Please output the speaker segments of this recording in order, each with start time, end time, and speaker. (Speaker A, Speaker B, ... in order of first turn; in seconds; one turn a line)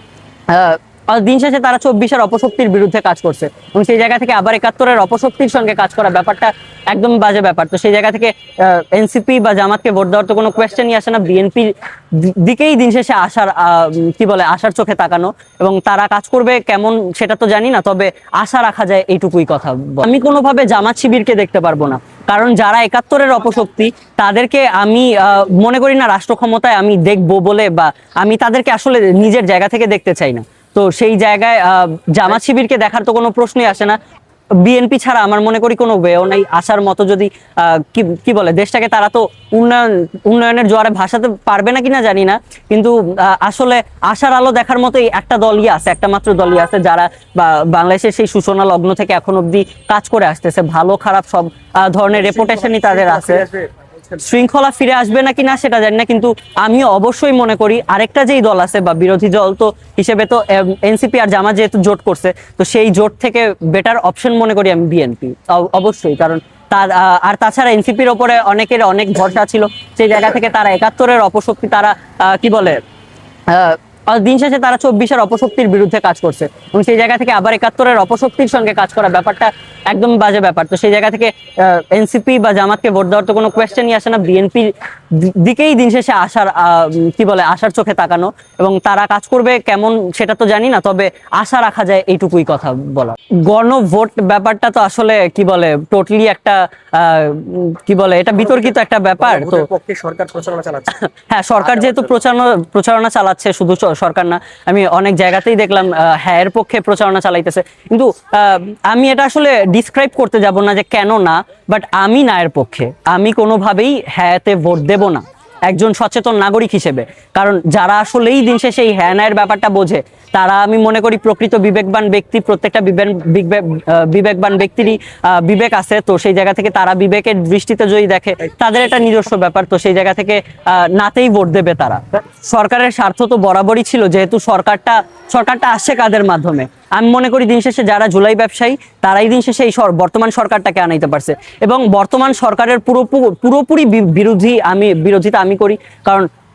Speaker A: 0.5-34.0
Speaker A: 34.6-53.5
Speaker B: 52.1-54.2
Speaker A: 54.2-72.8
Speaker A: 73.5-99.7
Speaker B: 98.4-101.0
Speaker A: 101.3-146.3
Speaker B: 101.6-102.2